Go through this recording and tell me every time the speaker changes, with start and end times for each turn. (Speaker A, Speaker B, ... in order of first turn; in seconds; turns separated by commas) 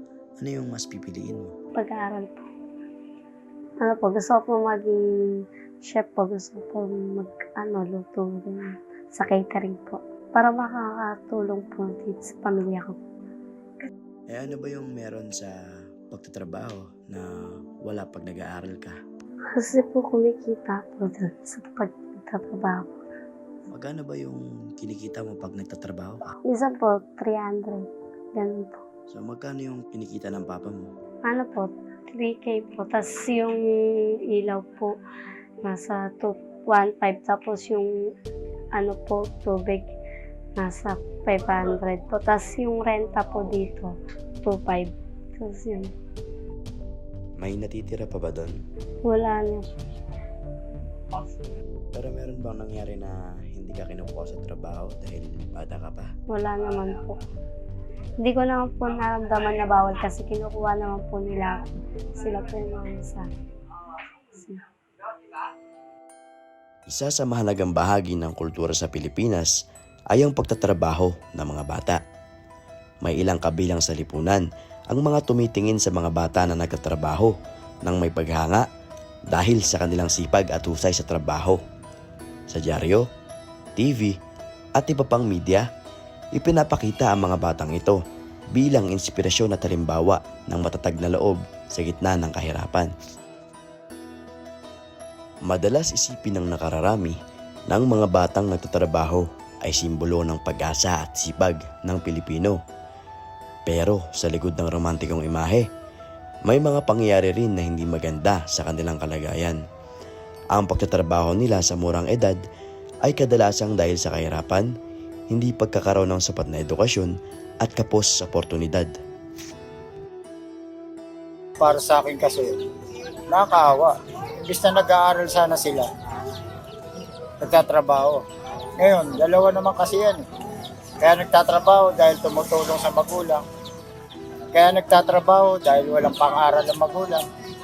Speaker A: 0.4-1.5, Speaker B: 1.8-2.5, Speaker B: 3.8-5.0, Speaker B: 5.9-13.0, Speaker A: 14.3-15.5, Speaker A: 16.1-17.3, Speaker A: 17.9-19.0, Speaker B: 19.5-23.0, Speaker A: 23.7-26.2, Speaker B: 26.5-27.9, Speaker B: 28.4-28.8, Speaker A: 29.1-30.9, Speaker B: 31.3-33.6, Speaker B: 34.3-34.9, Speaker B: 35.6-37.9, Speaker B: 38.8-39.9, Speaker B: 40.6-43.9, Speaker B: 44.4-45.9, Speaker A: 47.4-48.6, Speaker B: 49.0-49.7, Speaker A: 51.9-56.1, Speaker B: 56.3-57.2, Speaker B: 58.2-61.6, Speaker B: 62.2-63.3, Speaker B: 64.3-64.6, Speaker A: 66.9-69.5, Speaker A: 70.1-72.0, Speaker A: 73.0-77.3, Speaker A: 77.8-78.7, Speaker A: 79.3-81.6, Speaker A: 82.5-83.0, Speaker A: 83.8-84.2, Speaker A: 84.8-85.7, Speaker A: 86.3-88.0, Speaker A: 88.5-92.9, Speaker A: 95.5-97.2, Speaker A: 97.7-102.6, Speaker A: 103.7-105.7, Speaker A: 106.5-109.6, Speaker A: 110.5-112.4, Speaker A: 113.0-114.7, Speaker A: 115.3-118.9, Speaker C: 121.6-122.5, Speaker C: 123.3-123.9, Speaker C: 124.4-125.9, Speaker C: 127.4-128.2, Speaker C: 128.8-130.2, Speaker C: 131.0-133.4, Speaker C: 134.5-137.2